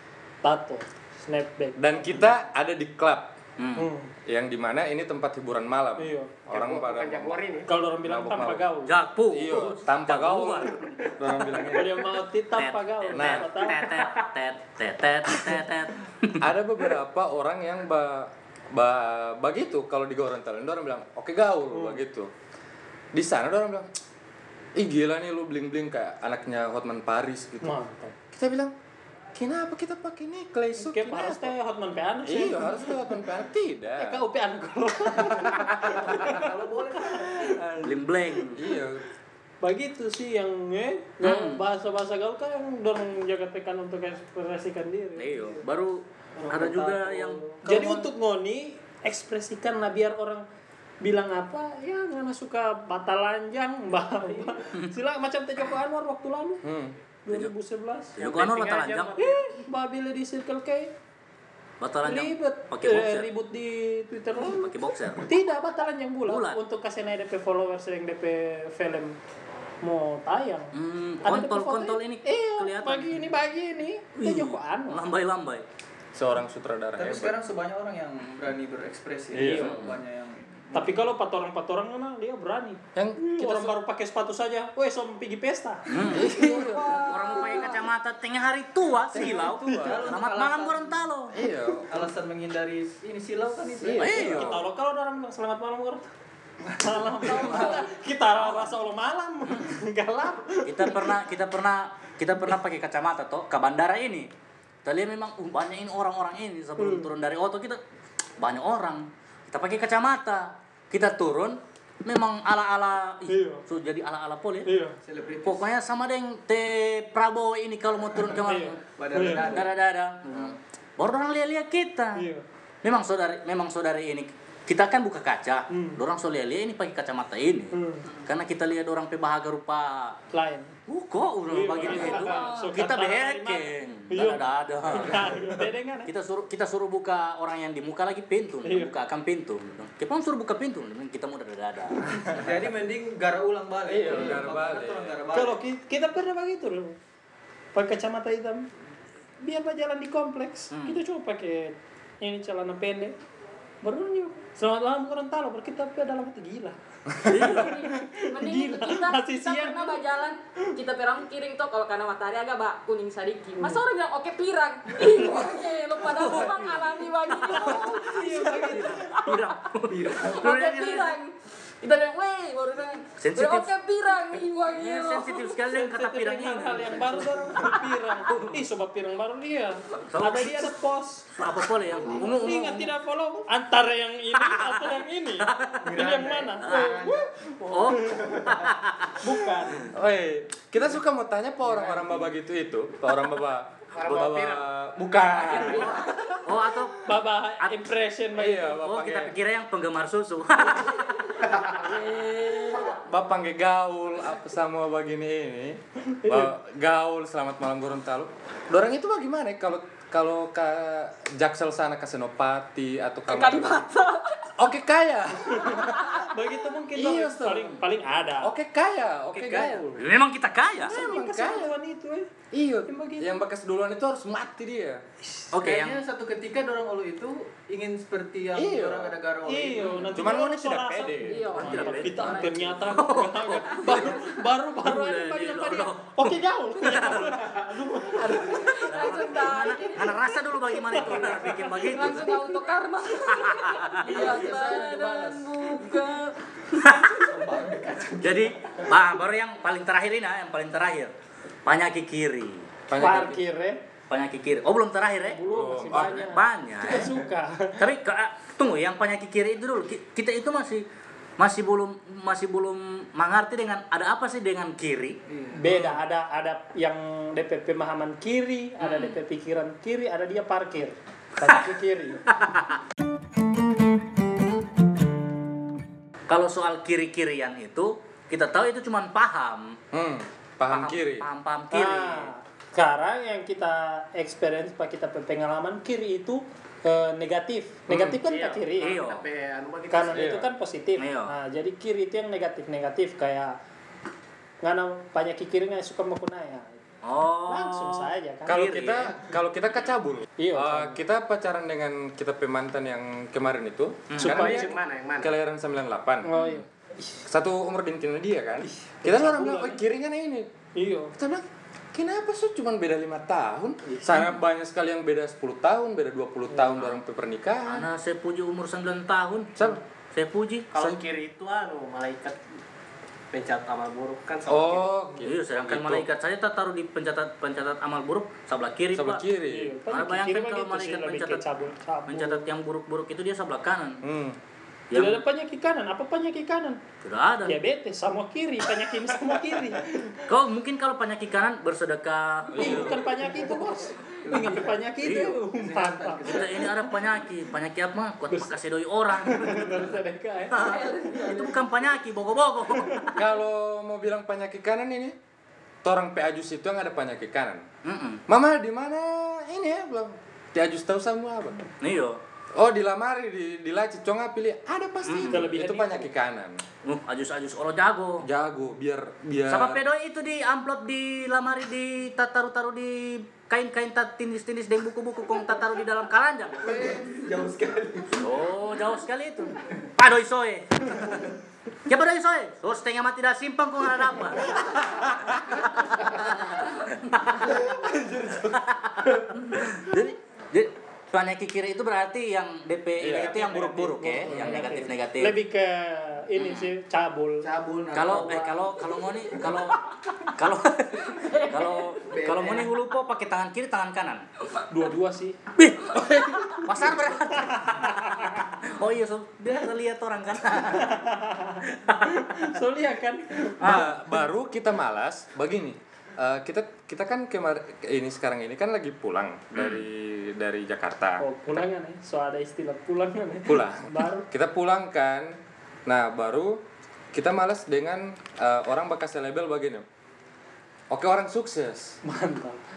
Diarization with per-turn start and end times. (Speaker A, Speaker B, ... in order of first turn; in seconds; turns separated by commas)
Speaker A: 0.4-1.9, Speaker B: 1.8-3.4, Speaker C: 3.6-3.9, Speaker A: 3.8-4.1, Speaker B: 4.3-7.4, Speaker A: 6.0-6.5, Speaker D: 6.5-7.7, Speaker A: 7.7-8.9, Speaker B: 8.0-8.7, Speaker C: 8.9-11.7, Speaker B: 9.3-11.9, Speaker A: 11.7-13.8, Speaker C: 12.5-16.5, Speaker B: 13.1-13.5, Speaker B: 16.4-22.3, Speaker A: 21.7-22.0, Speaker B: 23.1-23.9, Speaker B: 24.8-27.8, Speaker A: 27.6-28.1, Speaker B: 28.3-28.7, Speaker B: 29.4-31.6, Speaker A: 30.8-33.2, Speaker B: 32.3-34.2, Speaker A: 34.0-36.5, Speaker E: 35.7-37.9, Speaker A: 37.0-37.6, Speaker C: 37.8-38.6, Speaker B: 38.5-39.0, Speaker A: 39.6-45.6, Speaker C: 41.2-41.6, Speaker C: 45.2-47.4, Speaker E: 46.4-48.1, Speaker A: 47.6-50.5, Speaker A: 51.0-56.6, Speaker B: 56.6-57.0, Speaker A: 57.3-58.2, Speaker C: 58.2-59.2, Speaker D: 58.2-59.5, Speaker A: 59.2-60.9, Speaker C: 61.8-63.3, Speaker A: 62.0-69.2, Speaker C: 64.4-65.3, Speaker C: 66.3-66.6, Speaker A: 69.8-70.7, Speaker C: 70.7-73.2, Speaker A: 71.2-75.0, Speaker C: 74.2-75.7, Speaker B: 76.2-77.4, Speaker E: 77.0-81.0, Speaker B: 79.3-79.9, Speaker C: 79.4-80.0, Speaker A: 80.7-87.7, Speaker B: 83.0-83.8, Speaker C: 85.9-86.4, Speaker B: 86.1-87.1, Speaker F: 86.9-87.7, Speaker C: 87.0-91.4, Speaker B: 89.1-90.1, Speaker E: 89.2-90.9, Speaker A: 89.6-89.9, Speaker B: 91.3-92.1, Speaker E: 91.9-94.5, Speaker B: 93.8-94.7, Speaker C: 94.0-94.6, Speaker A: 94.3-96.1, Speaker E: 96.7-97.8, Speaker A: 96.8-101.2, Speaker F: 97.3-97.9, Speaker C: 100.7-104.3, Speaker C: 104.8-107.8, Speaker A: 106.8-107.1, Speaker C: 108.4-114.7, Speaker A: 113.3-113.6, Speaker A: 114.7-115.0, Speaker E: 115.0-115.7, Speaker C: 115.5-122.3, Speaker A: 118.5-119.6, Speaker E: 118.8-119.7, Speaker A: 122.2-122.4, Speaker C: 122.8-130.2, Speaker A: 125.7-126.0, Speaker A: 127.7-128.1, Speaker A: 130.3-130.7, Speaker C: 130.9-135.4, Speaker A: 131.5-136.1, Speaker F: 132.1-132.8, Speaker C: 136.1-142.0, Speaker A: 138.7-138.9, Speaker E: 142.3-145.6, Speaker B: 143.8-145.2, Speaker A: 145.3-147.0, Speaker A: 147.7-148.7, Speaker A: 149.4-153.2, Speaker C: 150.7-151.0, Speaker A: 153.8-160.0, Speaker C: 157.3-157.8, Speaker F: 157.4-169.5, Speaker C: 166.1-171.2, Speaker A: 167.6-169.2, Speaker E: 169.9-170.5, Speaker F: 170.3-175.6, Speaker C: 173.2-173.7, Speaker C: 174.7-178.6, Speaker A: 175.7-181.4, Speaker C: 180.1-180.8, Speaker C: 181.3-182.9, Speaker A: 182.1-188.3, Speaker C: 184.3-185.8, Speaker E: 185.8-188.7, Speaker C: 186.6-187.1, Speaker C: 187.7-189.2, Speaker A: 189.2-189.9, Speaker B: 189.9-195.9, Speaker D: 193.9-194.7, Speaker D: 195.3-196.2, Speaker C: 196.4-197.1, Speaker A: 197.0-198.8, Speaker B: 198.4-199.3, Speaker C: 198.7-201.2, Speaker F: 201.8-203.0, Speaker B: 202.9-213.9, Speaker A: 206.1-206.5, Speaker F: 213.3-214.5, Speaker B: 214.6-216.2, Speaker A: 215.4-218.5, Speaker F: 215.8-216.3, Speaker B: 216.9-217.8, Speaker B: 218.4-220.0, Speaker C: 219.3-221.0, Speaker B: 220.9-221.8, Speaker A: 220.9-222.3, Speaker B: 222.5-225.0, Speaker A: 222.9-223.3, Speaker A: 225.2-225.5, Speaker C: 225.5-226.1, Speaker E: 225.6-230.1, Speaker B: 228.5-229.2, Speaker A: 229.5-238.9, Speaker C: 229.8-230.1, Speaker B: 230.2-232.0, Speaker F: 231.3-233.0, Speaker C: 231.6-234.2, Speaker C: 234.8-237.4, Speaker C: 238.2-242.4, Speaker F: 238.4-240.3, Speaker A: 240.8-242.6, Speaker F: 241.9-246.4, Speaker C: 243.3-244.2, Speaker E: 244.0-245.8, Speaker C: 246.8-247.2, Speaker E: 247.1-248.8, Speaker C: 248.2-251.1, Speaker C: 251.7-252.7, Speaker B: 252.9-253.4, Speaker A: 253.0-253.8, Speaker C: 254.1-257.1, Speaker A: 255.3-257.9, Speaker B: 255.5-256.3, Speaker C: 257.8-260.9, Speaker C: 261.4-265.2, Speaker E: 265.3-265.6, Speaker A: 265.6-272.2, Speaker C: 265.7-266.0, Speaker C: 268.8-269.2, Speaker C: 272.3-272.8, Speaker C: 276.3-279.8, Speaker B: 279.9-281.3, Speaker C: 280.7-282.3, Speaker A: 281.7-289.0, Speaker B: 287.9-288.2, Speaker C: 287.9-288.2, Speaker D: 288.2-290.4, Speaker C: 288.8-289.3, Speaker A: 289.9-293.6, Speaker B: 290.1-290.5, Speaker C: 291.0-291.3, Speaker A: 294.6-296.8, Speaker C: 297.0-299.1, Speaker A: 297.5-298.7, Speaker B: 298.5-306.3, Speaker A: 300.4-301.0, Speaker A: 304.2-304.8, Speaker D: 304.3-305.3, Speaker A: 306.2-307.2, Speaker C: 306.4-306.6, Speaker B: 307.3-310.5, Speaker A: 309.1-309.8, Speaker A: 310.8-311.1, Speaker B: 311.2-317.9, Speaker A: 316.5-316.8, Speaker C: 317.7-319.6, Speaker B: 319.6-319.8, Speaker C: 320.1-320.7, Speaker D: 320.7-322.4, Speaker B: 320.8-321.0, Speaker D: 323.3-324.9, Speaker B: 324.5-326.1, Speaker C: 325.2-329.2, Speaker B: 328.9-329.8, Speaker A: 329.5-332.5, Speaker C: 329.9-331.4, Speaker C: 332.1-334.0, Speaker B: 334.0-334.4, Speaker C: 334.9-335.2, Speaker A: 334.9-336.8, Speaker C: 337.0-337.6, Speaker A: 337.4-340.2, Speaker C: 340.2-343.0, Speaker B: 342.5-343.0, Speaker A: 342.6-346.4, Speaker E: 343.2-344.9, Speaker C: 345.0-345.4, Speaker E: 345.4-346.9, Speaker C: 346.3-350.0, Speaker A: 348.3-348.6, Speaker A: 349.2-350.8, Speaker C: 350.5-353.2, Speaker F: 350.6-351.6, Speaker A: 352.8-353.1, Speaker B: 353.1-355.2, Speaker B: 355.8-357.6, Speaker C: 357.8-358.2, Speaker B: 358.3-361.7, Speaker C: 361.8-362.2, Speaker B: 362.5-366.6, Speaker C: 365.1-365.4, Speaker A: 365.3-366.1, Speaker C: 366.8-368.3, Speaker B: 368.2-369.8, Speaker C: 369.5-376.9, Speaker E: 376.6-378.3, Speaker C: 378.1-381.2, Speaker C: 381.9-384.8, Speaker B: 384.9-385.4, Speaker C: 385.4-387.6, Speaker E: 387.5-388.4, Speaker C: 388.4-395.4, Speaker B: 393.0-393.4, Speaker E: 393.2-394.2, Speaker A: 394.0-397.5, Speaker B: 394.3-394.7, Speaker C: 396.4-396.7, Speaker E: 397.4-399.7, Speaker C: 397.9-404.3, Speaker F: 401.1-402.0, Speaker E: 402.1-402.7, Speaker A: 404.7-405.4, Speaker C: 405.6-411.1, Speaker A: 406.6-408.4, Speaker A: 410.7-414.1, Speaker C: 411.7-412.2, Speaker C: 413.6-413.9, Speaker B: 413.6-421.2, Speaker C: 419.5-419.8, Speaker A: 421.2-424.3, Speaker B: 423.4-429.9, Speaker B: 430.9-432.0, Speaker A: 432.0-432.6